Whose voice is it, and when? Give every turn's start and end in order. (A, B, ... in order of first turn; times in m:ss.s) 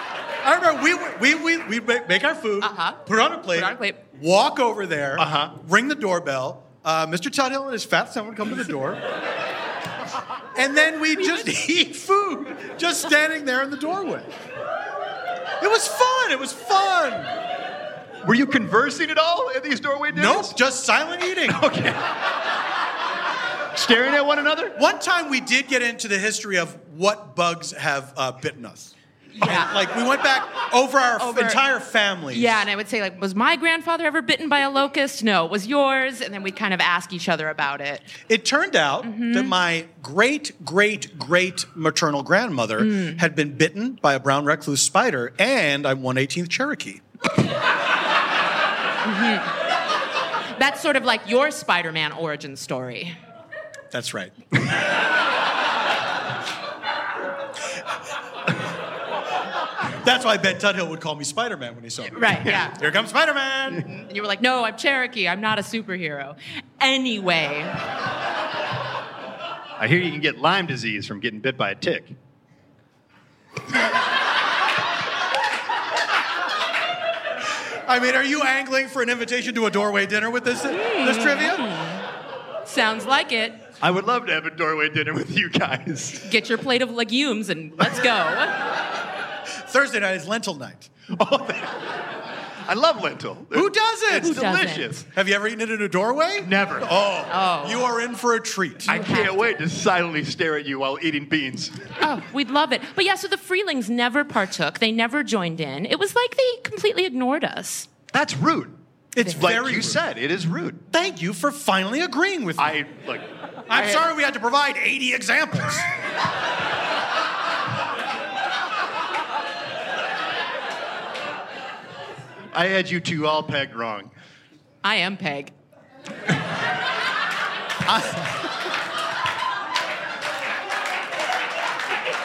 0:00.4-0:09.0 A
0:02.6-0:04.0 B
0:05.2-0:05.6 C
0:10.6-0:14.3 A
0:15.6-0:17.3 A
0:18.2-0:20.6 C
0:20.1-0:21.6 A
0:21.5-0:22.1 C
0:23.7-0:24.8 C
0:24.8-0:32.6 A
0:29.3-0:29.7 B
0:31.2-0:31.6 B
0:32.3-0:38.1 B
0:38.3-0:47.0 A
0:39.0-0:39.5 B
0:42.8-0:43.2 B
0:49.0-0:49.5 B
0:50.5-0:53.2 B
0:53.9-0:54.3 A
1:00.0-1:03.9 A
1:02.1-1:02.8 B
1:03.8-1:07.8 B
1:09.8-1:12.2 C
1:17.9-1:21.6 A
1:20.7-1:22.0 B
1:22.6-1:23.6 B
1:23.8-1:26.2 C
1:26.2-1:28.6 B
1:29.7-1:30.9 A
1:31.1-1:31.9 C
1:32.6-1:35.1 C
1:33.5-1:34.4 A
1:34.1-1:35.0 B
1:35.0-1:38.9 A
1:36.4-1:36.9 C
1:37.3-1:37.9 B
1:38.9-1:39.3 B
1:38.9-1:42.0 C
1:42.0-1:47.9 B
1:48.1-1:48.8 C
1:49.1-1:50.0 A
1:49.3-1:50.8 C
1:50.9-1:52.8 A
1:52.6-1:54.1 C
1:53.7-1:55.9 A
2:02.5-2:04.1 C
2:04.8-2:05.5 B
2:07.9-2:08.2 C